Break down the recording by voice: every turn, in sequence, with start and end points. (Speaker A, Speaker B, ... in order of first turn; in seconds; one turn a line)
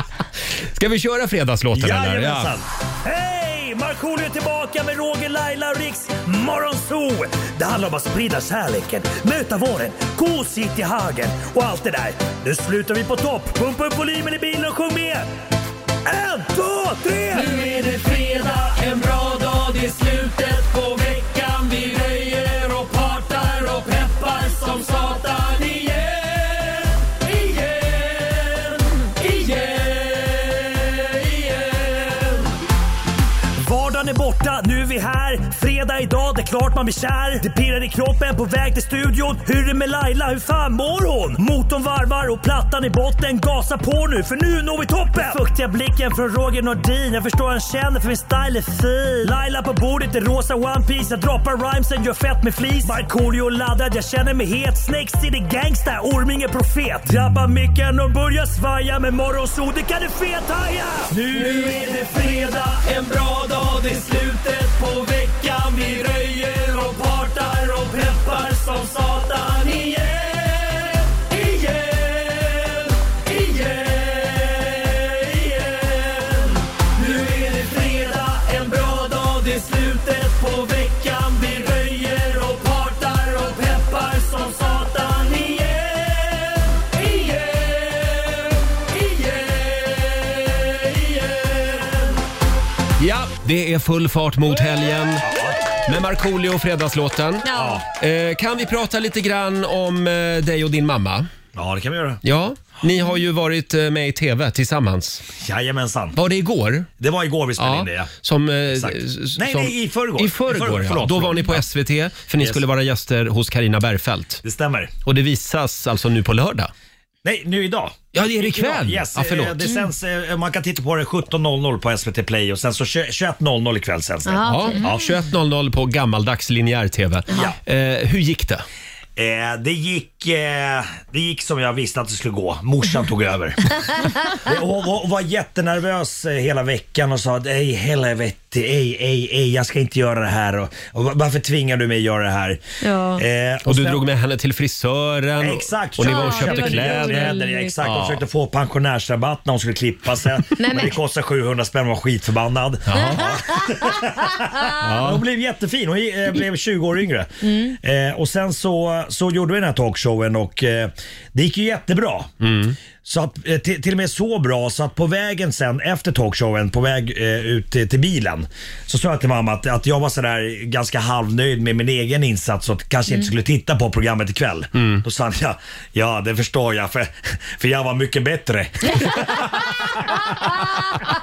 Speaker A: 0.7-2.5
Speaker B: 1.7-15.3
Speaker B: 16.1-29.9
Speaker A: 18.8-19.6
Speaker A: 22.5-23.6
Speaker A: 30.2-31.2
Speaker B: 33.6-92.2
Speaker A: 61.3-61.6
Speaker A: 93.0-101.3
Speaker B: 95.2-95.6
Speaker C: 97.4-97.8
Speaker B: 97.5-97.8
Speaker B: 101.5-102.2
Speaker A: 102.2-105.2
Speaker B: 105.4-106.2
Speaker A: 106.2-106.9
Speaker B: 107.0-108.1
Speaker A: 107.6-114.4
Speaker B: 108.7-111.6
Speaker B: 114.4-114.9
Speaker A: 115.0-116.7
Speaker B: 117.2-125.1
Speaker A: 118.1-119.7
Speaker C: 124.2-124.9
Speaker A: 124.4-128.7
Speaker B: 129.2-142.6
Speaker C: 142.8-143.2
Speaker B: 143.2-144.0
Speaker A: 143.7-148.2
Speaker B: 145.4-162.3
Speaker C: 146.0-147.8
Speaker C: 150.6-151.0
Speaker A: 152.9-153.3
Speaker C: 152.9-154.9
Speaker A: 154.8-155.2
Speaker C: 157.4-157.8
Speaker A: 162.4-162.8
Speaker B: 163.0-180.8
Speaker A: 174.8-175.0